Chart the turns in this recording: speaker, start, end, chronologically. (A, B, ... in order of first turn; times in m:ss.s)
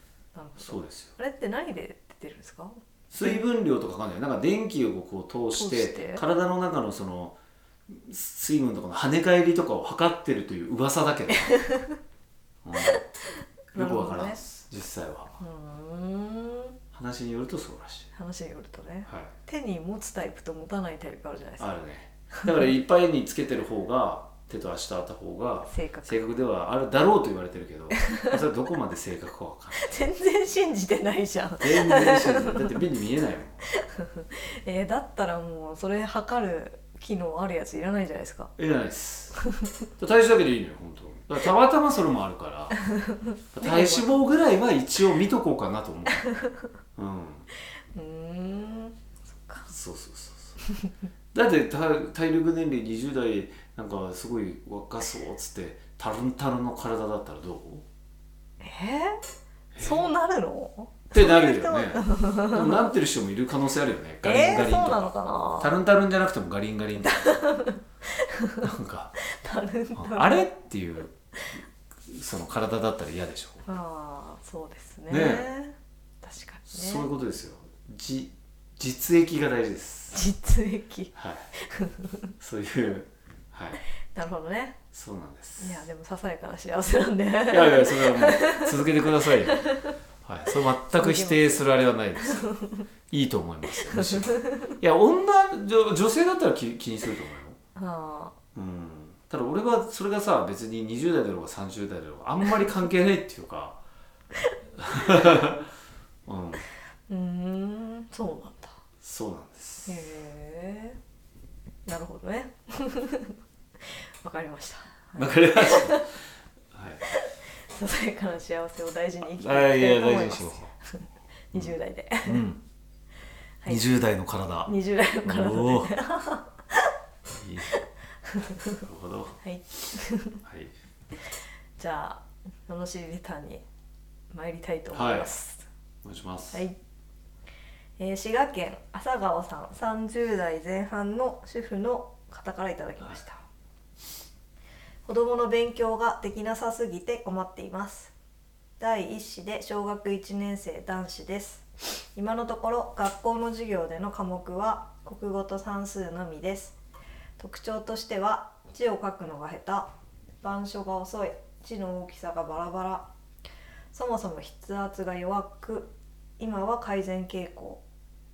0:00.3-0:03.4 A
0:00.6-0:01.1 B
0:03.1-0:07.4 B
0:05.5-0:06.2 A
0:07.9-0:11.5 B
0:11.5-0:12.0 A
0:12.6-0:13.0 B
0:13.7-0:14.4 A
0:13.7-0:15.3 B
0:15.4-0:16.8 A
0:16.9-0:18.1 B
0:18.2-0:21.7 A
0:19.0-0:19.3 B
0:21.6-0:29.9 B
0:25.7-0:26.3 A
0:28.1-0:28.4 A
0:29.8-0:32.8 A
0:31.6-0:33.7 B
0:33.8-0:38.5 A
0:38.6-0:39.4 B
0:40.0-0:42.8 B
0:43.0-0:44.1 A
0:43.5-0:46.3 B
0:47.0-0:47.5 B
0:47.9-0:49.7 A
0:49.7-0:50.6 B
0:51.3-0:57.8 B
0:58.6-0:59.2 A
0:59.7-1:00.1 B
0:59.8-1:02.9 A
1:01.1-1:07.4 B
1:04.2-1:05.8 A
1:07.0-1:08.7 A
1:08.6-1:09.2 B
1:09.3-1:10.5 A
1:09.9-1:11.1 B
1:12.1-1:13.6 B
1:13.7-1:17.1 A
1:15.1-1:15.5 B
1:16.7-1:20.2 B
1:20.1-1:22.3 A
1:21.1-1:21.5 B
1:22.4-1:23.8 B
1:24.2-1:24.8 A
1:24.9-1:25.8 B
1:25.6-1:29.9 A
1:27.5-1:29.6 B
1:30.2-1:32.5 B
1:30.9-1:31.6 A
1:32.2-1:32.8 A
1:33.1-1:37.6 B
1:33.9-1:34.7 A
1:37.8-1:38.3 A
1:38.5-1:43.8 B
1:44.8-1:45.7 B
1:45.0-1:45.5 A
1:46.3-1:46.7 B
1:47.1-1:48.8 A
1:49.0-1:50.0 B
1:49.8-1:51.0 A
1:51.8-1:56.0 A
1:55.2-1:56.1 B
1:56.7-1:57.0 B
1:57.1-2:02.4 A
1:59.2-2:00.7 B
2:01.5-2:02.6 B
2:03.7-2:05.9 B
2:04.6-2:06.9 A
2:07.3-2:07.8 B
2:08.3-2:08.8 A
2:08.8-2:09.4 B
2:09.4-2:10.4 A
2:10.4-2:10.7 B
2:11.8-2:13.6 A
2:14.3-2:15.6 A
2:14.9-2:15.3 B
2:16.0-2:16.6 B
2:18.0-2:23.4 A
2:25.0-2:28.1 A
2:28.8-2:36.8 A
2:37.4-2:39.9 A
2:40.4-2:43.1 A
2:43.9-2:47.8 A